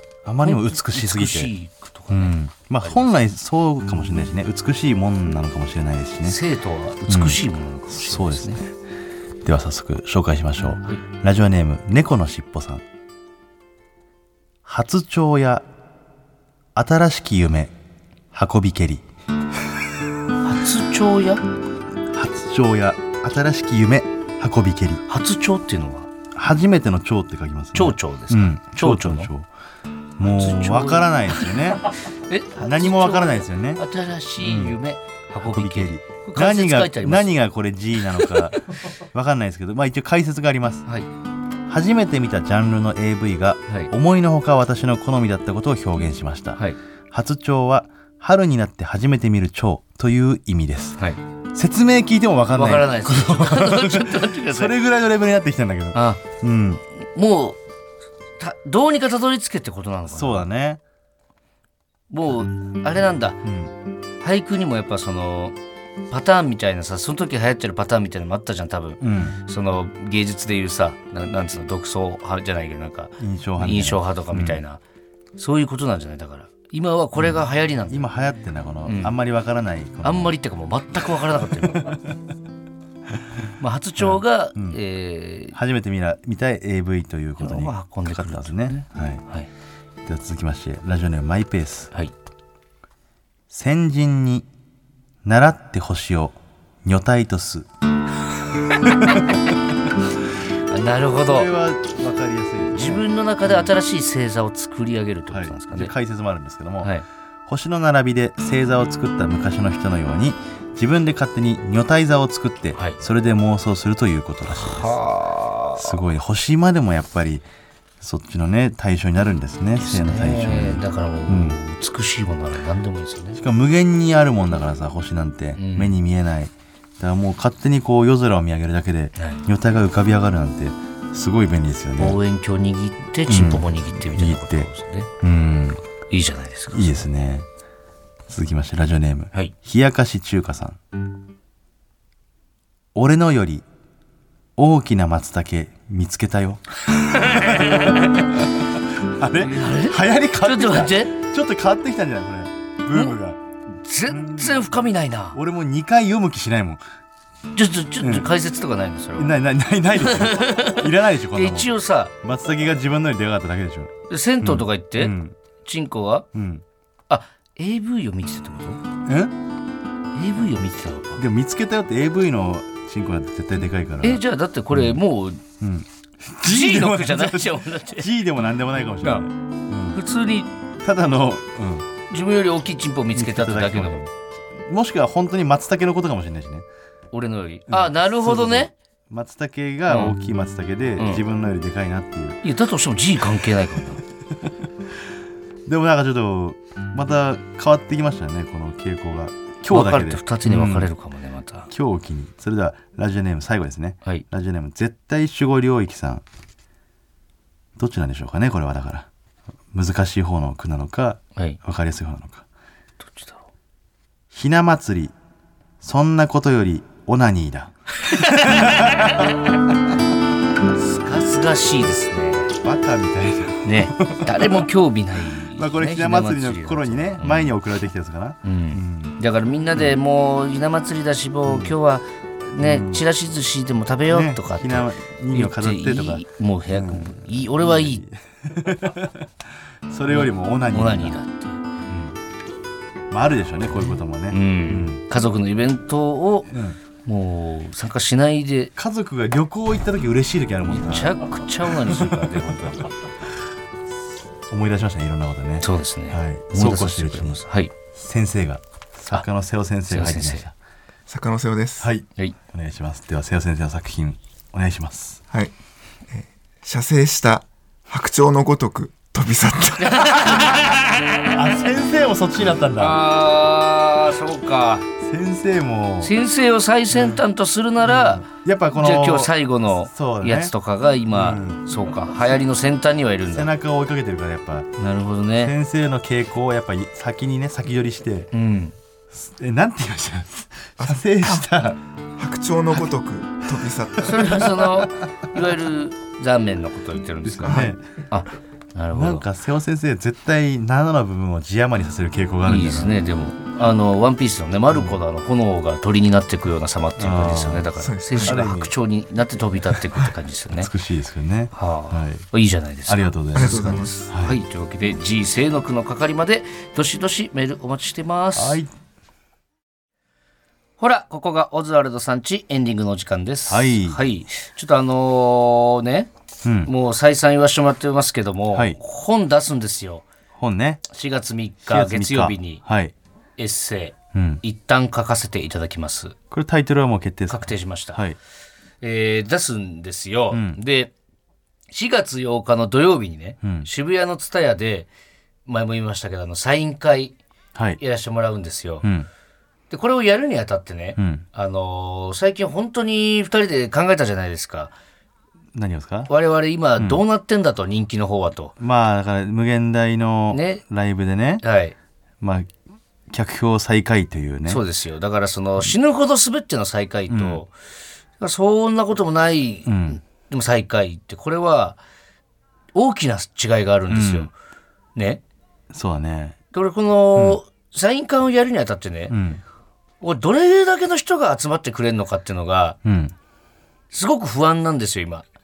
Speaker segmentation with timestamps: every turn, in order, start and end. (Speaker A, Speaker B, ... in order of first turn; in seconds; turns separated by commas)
Speaker A: 0.2-1.5, Speaker B: 0.4-3.0, Speaker A: 2.1-6.4, Speaker B: 6.2-8.6, Speaker A: 7.1-8.7, Speaker A: 9.4-12.8, Speaker A: 14.7-15.7, Speaker A: 16.8-17.7, Speaker A: 18.3-19.1, Speaker B: 20.4-21.4, Speaker A: 22.1-25.0, Speaker B: 25.1-26.1, Speaker A: 26.3-29.5, Speaker B: 27.8-29.3, Speaker A: 30.2-31.9, Speaker B: 30.2-31.5, Speaker B: 32.1-37.4, Speaker A: 32.6-33.8, Speaker A: 34.4-34.8, Speaker A: 35.4-40.9, Speaker A: 41.7-51.0, Speaker A: 51.5-56.8, Speaker B: 52.5-54.7, Speaker B: 55.9-56.2, Speaker B: 57.0-57.6, Speaker B: 58.4-60.5, Speaker A: 60.1-60.8, Speaker B: 62.1-63.4, Speaker A: 63.4-63.7, Speaker B: 64.2-65.6, Speaker B: 66.1-74.8, Speaker A: 69.0-69.4, Speaker A: 73.2-74.6, Speaker B: 75.4-78.1, Speaker A: 77.2-80.3, Speaker B: 78.8-79.2, Speaker B: 80.0-82.0, Speaker A: 81.6-82.0, Speaker B: 83.6-85.6, Speaker A: 84.0-84.8, Speaker A: 85.5-89.2, Speaker B: 87.4-89.5, Speaker A: 90.1-91.9, Speaker A: 93.5-94.5, Speaker A: 95.2-97.7, Speaker A: 98.7-99.5, Speaker B: 100.7-101.5, Speaker A: 101.2-103.0, Speaker B: 102.8-105.9, Speaker A: 105.3-106.9, Speaker A: 107.5-115.0, Speaker B: 112.8-113.0, Speaker B: 114.5-116.0, Speaker A: 115.8-117.5, Speaker A: 118.0-121.6, Speaker B: 119.8-123.4, Speaker A: 123.4-132.2, Speaker B: 125.6-126.0, Speaker B: 129.2-129.4, Speaker B: 132.0-135.1, Speaker A: 133.3-134.7, Speaker A: 135.2-135.8, Speaker B: 136.1-137.0, Speaker A: 136.7-137.5, Speaker A: 138.3-140.8, Speaker A: 142.9-143.7, Speaker A: 144.6-153.4, Speaker B: 147.1-148.2, Speaker B: 149.4-151.2, Speaker B: 153.7-155.4, Speaker A: 154.1-154.7, Speaker A: 155.3-156.8, Speaker B: 157.5-159.3, Speaker A: 158.0-158.3, Speaker A: 159.2-165.3, Speaker B: 159.9-162.1, Speaker B: 164.1-166.3, Speaker A: 166.3-166.6, Speaker B: 167.1-168.8, Speaker A: 169.1-169.3, Speaker B: 170.2-171.2, Speaker A: 171.2-175.0, Speaker B: 174.0-175.4, Speaker A: 175.6-180.0, Speaker B: 176.4-178.1, Speaker B: 179.9-180.5, Speaker A: 180.8-181.9, Speaker B: 182.1-184.0, Speaker A: 183.2-186.7, Speaker B: 187.1-188.7, Speaker A: 187.7-192.4, Speaker B: 189.9-190.1, Speaker B: 191.0-191.2, Speaker B: 192.4-194.0, Speaker A: 195.7-200.9, Speaker B: 199.7-201.7, Speaker A: 201.7-206.2, Speaker A: 207.8-209.1, Speaker A: 209.7-212.4, Speaker B: 213.0-213.5, Speaker A: 214.3-215.2, Speaker A: 215.8-219.3, Speaker B: 218.1-219.2, Speaker B: 220.7-222.5, Speaker A: 222.6-224.7, Speaker B: 223.6-227.5, Speaker A: 225.4-229.2, Speaker B: 228.4-238.0, Speaker A: 231.5-231.8, Speaker A: 232.6-233.0, Speaker A: 234.1-239.3, Speaker A: 239.9-241.2, Speaker B: 240.1-241.6, Speaker A: 241.9-242.2, Speaker A: 243.1-245.0, Speaker B: 244.3-248.7, Speaker A: 246.5-246.8, Speaker A: 248.8-251.2, Speaker B: 250.7-252.9, Speaker A: 251.9-252.8, Speaker A: 254.5-257.4, Speaker B: 255.6-257.7, Speaker A: 257.9-260.5, Speaker B: 259.9-260.5, Speaker C: 261.1-261.9, Speaker A: 261.8-265.2, Speaker C: 266.1-270.3, Speaker B: 269.8-271.4, Speaker A: 270.2-270.6, Speaker A: 271.3-273.0, Speaker B: 272.8-274.9, Speaker A: 275.0-276.1, Speaker B: 276.0-283.5, Speaker A: 276.9-277.2, Speaker A: 277.8-279.3, Speaker A: 279.8-280.5, Speaker A: 281.1-281.6, Speaker A: 283.3-284.7, Speaker B: 284.8-285.5, Speaker A: 285.4-288.3, Speaker B: 288.3-288.8, Speaker A: 289.1-291.8, Speaker C: 290.8-291.5, Speaker C: 292.2-294.6, Speaker B: 294.0-299.3, Speaker A: 294.2-294.9, Speaker A: 297.2-297.8, Speaker C: 297.4-297.7, Speaker A: 298.9-303.0, Speaker B: 302.4-310.7, Speaker A: 304.7-305.0, Speaker A: 307.0-308.7, Speaker C: 307.8-308.5, Speaker A: 310.5-312.3, Speaker B: 311.5-318.6, Speaker A: 312.9-314.4, Speaker C: 313.4-313.9, Speaker A: 318.4-318.7, Speaker B: 320.8-326.1, Speaker A: 323.5-324.0, Speaker A: 326.4-326.7, Speaker B: 326.6-330.1, Speaker A: 328.5-328.8, Speaker A: 330.4-330.8, Speaker B: 330.9-332.6, Speaker A: 331.7-332.9, Speaker B: 333.4-336.1, Speaker A: 334.1-334.4, Speaker A: 336.3-338.2, Speaker B: 337.3-338.0, Speaker B: 338.8-340.9, Speaker A: 340.3-340.6, Speaker B: 341.7-344.9, Speaker A: 343.4-343.7, Speaker B: 345.5-347.2, Speaker B: 347.8-348.9, Speaker B: 349.7-354.7, Speaker A: 351.0-351.2, Speaker A: 355.5-356.1, Speaker B: 356.1-358.5, Speaker A: 358.6-361.4, Speaker B: 360.3-360.6, Speaker B: 361.4-361.8, Speaker A: 362.2-362.5, Speaker A: 363.1-364.6, Speaker B: 364.5-367.5, Speaker A: 367.1-367.4, Speaker B: 368.2-371.8, Speaker A: 369.7-370.0, Speaker B: 372.7-374.3, Speaker A: 373.9-374.3, Speaker B: 375.0-375.2, Speaker A: 375.7-376.4, Speaker B: 376.5-379.2, Speaker A: 379.1-379.4, Speaker B: 380.0-382.8, Speaker A: 382.9-383.1, Speaker B: 383.9-385.2